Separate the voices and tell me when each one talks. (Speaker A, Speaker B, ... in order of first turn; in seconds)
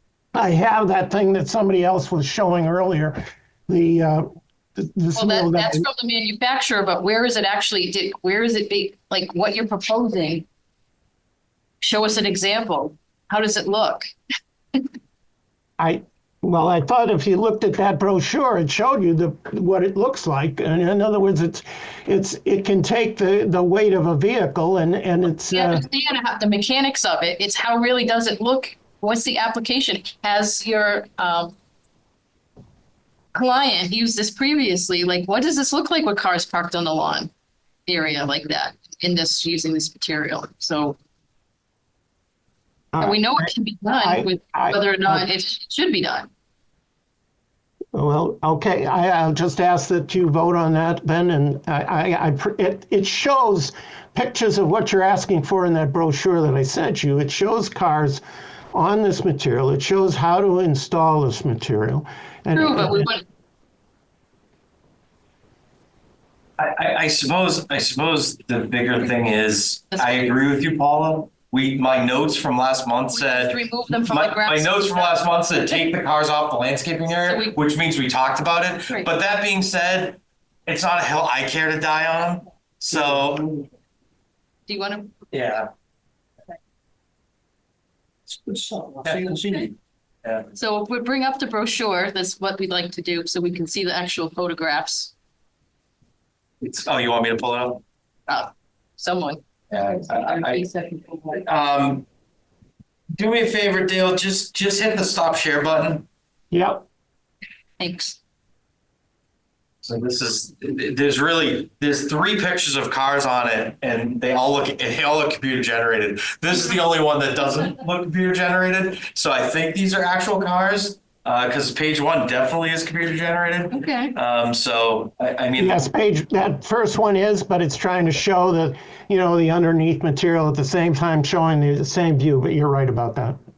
Speaker A: 0.3-4.2, 4.8-5.9, 15.8-25.9, 42.9-45.2, 47.9-58.2, 58.7-63.1, 106.5-106.8, 125.6-133.4
Speaker B: 5.2-10.5, 11.8-14.1, 25.5-31.6, 33.3-37.3, 37.9-41.0, 43.0-46.3, 62.5-63.2, 69.9-70.3, 73.1-75.4, 77.2-77.6, 84.7-85.2, 90.5-95.1, 98.3-99.4, 100.1-101.5, 107.8-108.2, 123.7-124.2
Speaker C: 66.6-83.5, 85.3-85.7, 88.6-90.5, 96.6-97.8, 99.7-100.7, 101.4-102.0, 103.1-106.0, 109.8-125.9